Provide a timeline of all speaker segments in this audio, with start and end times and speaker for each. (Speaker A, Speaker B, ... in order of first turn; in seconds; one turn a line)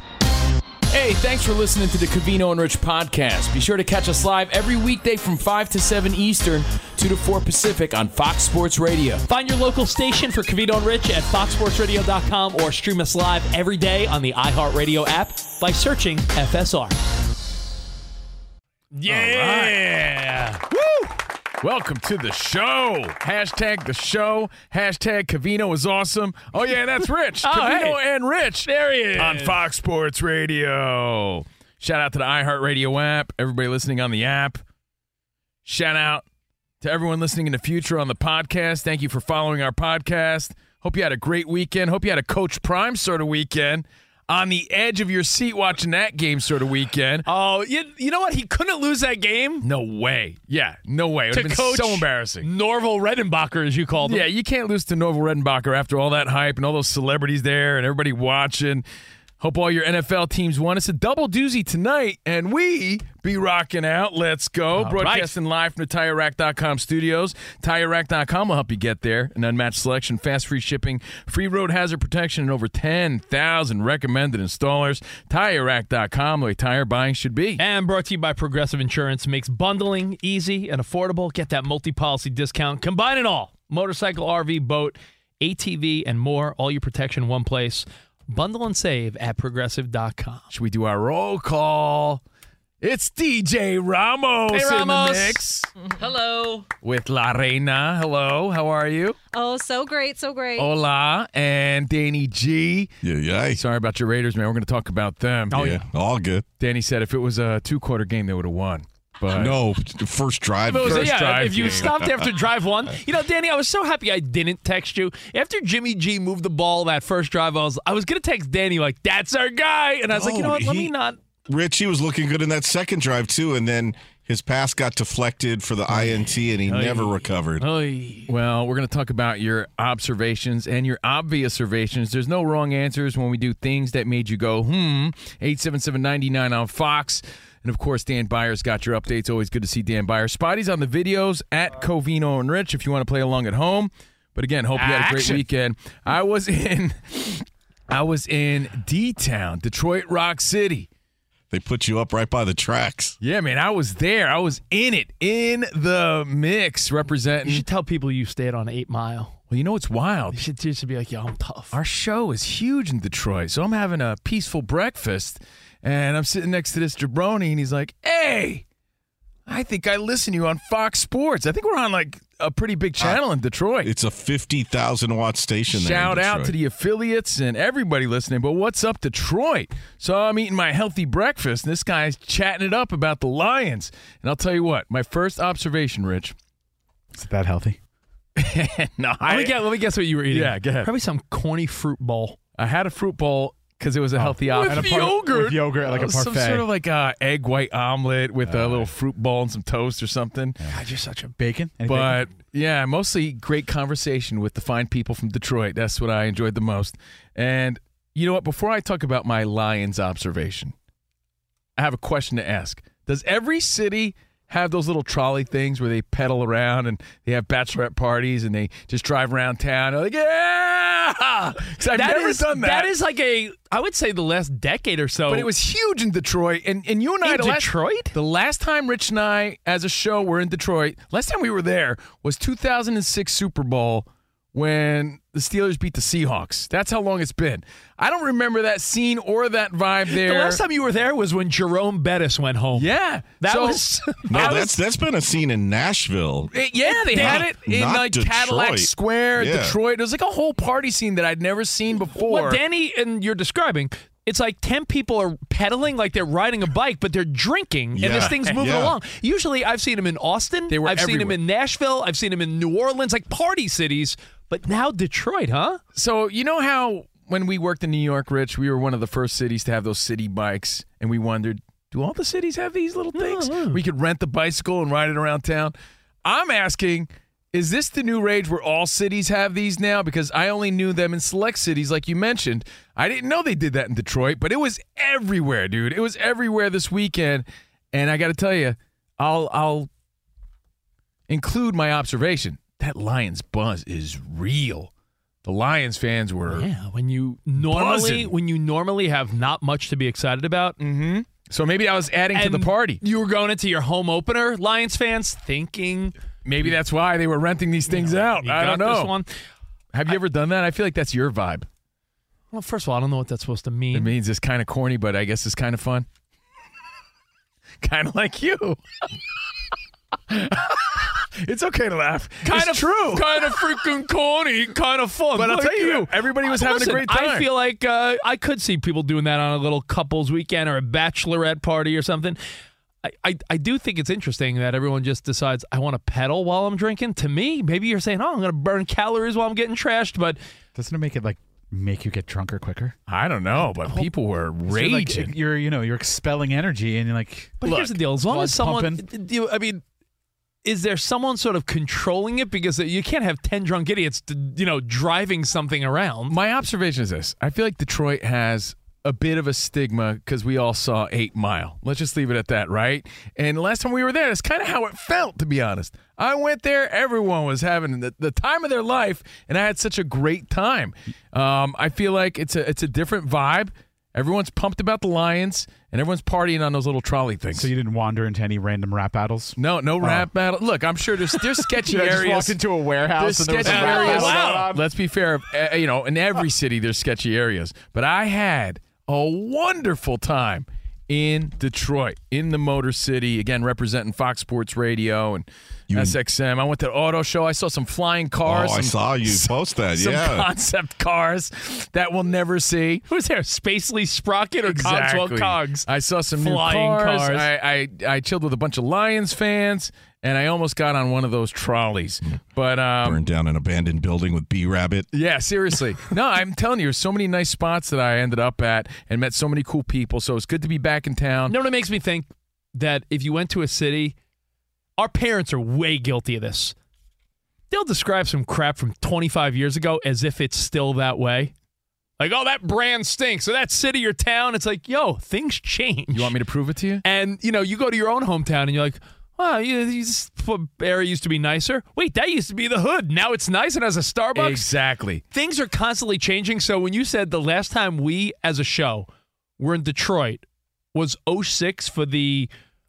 Speaker A: 0.9-9.2
Speaker B: 9.3-16.9
Speaker B: 18.9-21.1
Speaker A: 19.1-20.1
Speaker A: 21.6-34.6
Speaker B: 27.4-28.0
Speaker B: 28.6-29.6
Speaker A: 35.6-36.2
Speaker A: 36.8-47.2
Speaker B: 47.2-49.6
Speaker A: 49.6-52.5
Speaker B: 51.3-54.2
Speaker A: 54.0-58.8
Speaker A: 59.4-77.6
Speaker B: 64.8-65.3
Speaker B: 77.6-90.5
Speaker A: 90.5-92.2
Speaker A: 92.8-95.7
Speaker B: 94.5-95.4
Speaker C: 95.9-96.5
Speaker A: 96.8-99.2
Speaker C: 99.3-100.7
Speaker A: 100.5-102.9
Speaker D: 103.0-103.6
Speaker A: 103.5-105.8
Speaker D: 105.5-106.4
Speaker A: 106.6-109.6
Speaker D: 109.3-112.1
Speaker A: 110.7-111.9
Speaker B: 110.7-121.2
Speaker D: 120.1-120.9
Speaker D: 121.5-127.7
Speaker B: 125.9-128.3
Speaker A: 128.3-150.9
Speaker B: 144.7-145.4
Speaker D: 151.5-153.2
Speaker A: 153.2-157.6
Speaker B: 157.4-159.4
Speaker A: 159.5-160.4
Speaker B: 160.3-161.7
Speaker A: 161.7-168.6
Speaker A: 169.4-173.9
Speaker D: 173.8-176.5
Speaker A: 175.7-186.3
Speaker E: 187.1-187.8
Speaker A: 188.4-189.6
Speaker B: 189.2-192.4
Speaker A: 190.3-190.9
Speaker A: 192.6-200.6
Speaker E: 194.2-196.7
Speaker B: 194.7-195.2
Speaker E: 198.4-198.9
Speaker E: 200.6-200.8
Speaker B: 200.7-201.3
Speaker E: 201.3-202.3
Speaker A: 201.9-210.7
Speaker A: 211.8-222.9
Speaker B: 221.9-225.5
Speaker A: 225.3-240.6
Speaker B: 227.2-228.1
Speaker B: 240.1-244.8
Speaker A: 242.8-243.8
Speaker D: 244.3-246.5
Speaker A: 244.3-244.6
Speaker A: 246.5-252.6
Speaker B: 246.9-247.5
Speaker D: 247.1-249.8
Speaker B: 252.2-265.8
Speaker D: 257.9-258.9
Speaker A: 258.0-258.6
Speaker A: 260.7-261.4
Speaker A: 265.9-289.9
Speaker B: 273.1-273.8
Speaker A: 291.3-294.9
Speaker A: 295.4-296.7
Speaker B: 296.5-300.8
Speaker A: 297.6-298.3
Speaker A: 300.8-303.0
Speaker B: 302.3-306.1
Speaker A: 306.4-309.1
Speaker B: 307.9-309.3
Speaker A: 309.9-311.7
Speaker B: 312.5-314.1
Speaker A: 313.9-316.1
Speaker A: 317.8-318.8
Speaker A: 320.3-324.6
Speaker B: 322.4-332.4
Speaker A: 325.4-327.5
Speaker B: 333.0-340.4
Speaker E: 340.7-343.0
Speaker A: 343.1-345.3
Speaker E: 344.7-349.0
Speaker B: 347.6-349.8
Speaker A: 347.6-347.9
Speaker B: 350.6-356.3
Speaker A: 356.3-377.7
Speaker E: 377.5-380.3
Speaker A: 379.6-382.6
Speaker E: 381.7-384.8
Speaker A: 383.1-403.0
Speaker B: 383.6-384.7
Speaker D: 398.4-400.5
Speaker B: 403.1-405.9
Speaker A: 404.6-413.2
Speaker B: 406.4-407.5
Speaker D: 413.0-415.1
Speaker A: 415.1-421.6
Speaker B: 421.5-424.1
Speaker B: 425.0-426.7
Speaker B: 427.7-431.5
Speaker B: 432.2-436.3
Speaker A: 436.1-437.0
Speaker B: 437.0-444.6
Speaker A: 444.3-445.2
Speaker B: 445.3-449.1
Speaker B: 449.6-452.5